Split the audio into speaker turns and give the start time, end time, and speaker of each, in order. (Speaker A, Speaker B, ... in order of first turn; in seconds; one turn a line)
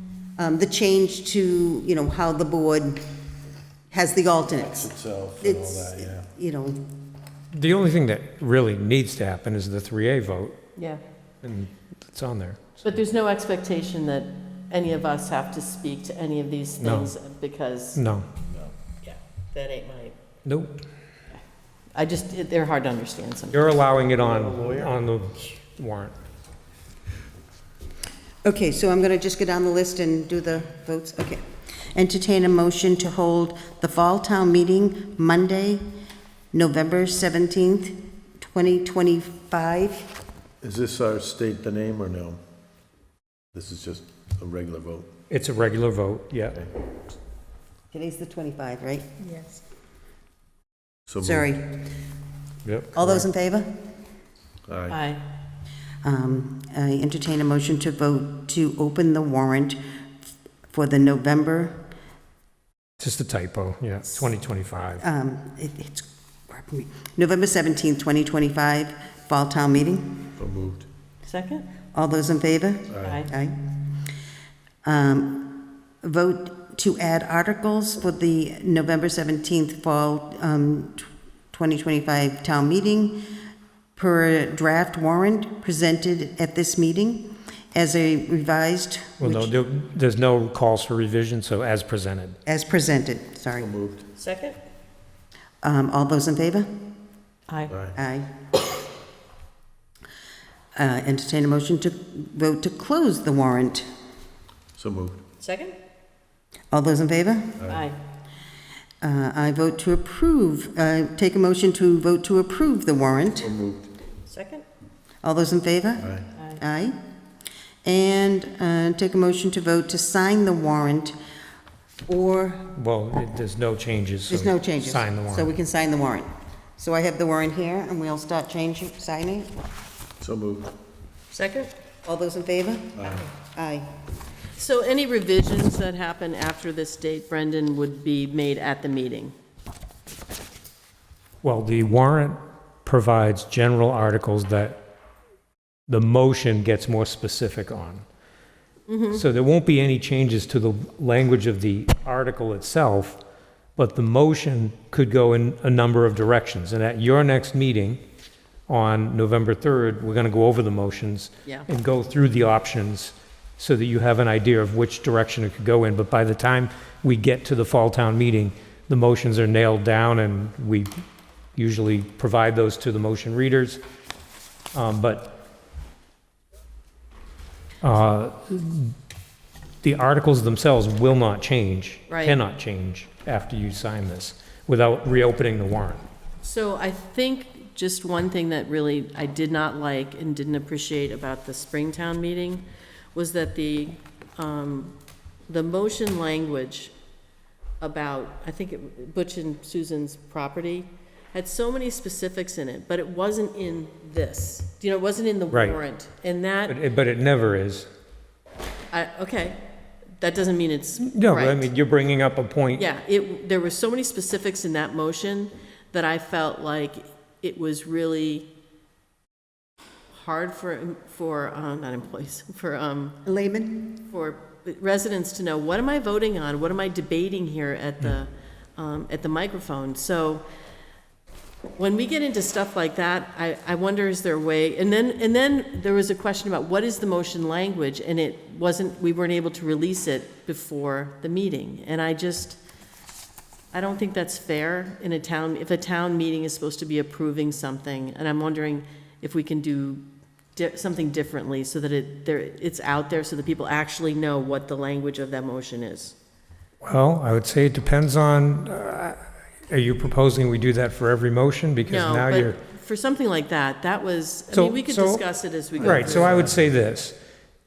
Speaker A: 0.4-3.0
Speaker A: 3.9-4.8
Speaker B: 4.7-6.3
Speaker A: 5.4-6.8
Speaker C: 7.5-10.6
Speaker C: 11.4-12.8
Speaker D: 12.8-18.0
Speaker C: 16.8-17.1
Speaker C: 17.9-18.2
Speaker D: 19.0-20.1
Speaker C: 20.4-20.7
Speaker D: 21.9-23.8
Speaker C: 23.5-26.1
Speaker B: 24.2-24.9
Speaker A: 28.4-35.8
Speaker A: 36.5-40.1
Speaker B: 40.6-42.4
Speaker B: 43.5-45.1
Speaker C: 45.3-46.6
Speaker A: 47.9-49.0
Speaker D: 49.2-49.6
Speaker B: 51.1-51.5
Speaker A: 51.2-51.8
Speaker C: 52.6-53.3
Speaker A: 52.9-53.7
Speaker B: 54.7-55.0
Speaker D: 54.9-55.2
Speaker A: 56.0-59.8
Speaker A: 60.7-61.7
Speaker C: 63.0-65.0
Speaker A: 65.0-70.2
Speaker B: 70.4-70.8
Speaker D: 71.2-71.7
Speaker A: 71.9-73.8
Speaker B: 72.9-73.3
Speaker D: 73.0-73.3
Speaker A: 74.8-83.2
Speaker A: 84.0-89.5
Speaker C: 89.2-92.4
Speaker A: 92.5-93.7
Speaker B: 93.6-94.0
Speaker D: 94.2-94.6
Speaker A: 95.6-96.7
Speaker D: 97.5-97.8
Speaker B: 97.7-98.0
Speaker A: 97.9-98.3
Speaker A: 100.8-103.9
Speaker B: 104.8-105.2
Speaker D: 105.4-105.8
Speaker A: 106.7-107.6
Speaker B: 107.6-107.8
Speaker D: 107.7-108.0
Speaker A: 109.0-113.5
Speaker B: 113.4-113.9
Speaker D: 114.2-114.6
Speaker A: 115.2-117.0
Speaker B: 116.0-116.3
Speaker D: 116.3-116.6
Speaker A: 117.8-121.1
Speaker A: 122.1-122.7
Speaker C: 122.7-125.5
Speaker A: 124.3-129.5
Speaker B: 130.2-130.7
Speaker D: 131.3-131.7
Speaker A: 132.0-133.9
Speaker B: 133.0-133.3
Speaker D: 134.6-139.3
Speaker C: 141.4-144.8
Speaker C: 145.9-148.0
Speaker D: 148.9-149.2
Speaker C: 149.1-153.2
Speaker C: 153.8-158.0
Speaker C: 158.7-170.9
Speaker C: 171.6-173.8
Speaker C: 174.7-175.3
Speaker C: 177.8-178.9
Speaker C: 179.8-186.1
Speaker D: 182.1-182.4
Speaker D: 186.4-194.9
Speaker D: 195.5-196.9
Speaker D: 197.8-206.8
Speaker C: 205.5-205.8
Speaker C: 206.7-207.9
Speaker D: 208.9-209.6
Speaker D: 210.2-211.7
Speaker C: 211.1-212.8
Speaker D: 212.8-218.5
Speaker D: 220.1-223.2
Speaker A: 223.2-223.9
Speaker D: 224.1-230.4
Speaker D: 231.8-242.6
Speaker D: 243.7-250.0
Speaker D: 250.6-256.1
Speaker C: 256.8-262.6
Speaker D: 261.9-266.5
Speaker C: 264.5-265.2
Speaker C: 265.8-267.1
Speaker B: 265.9-266.5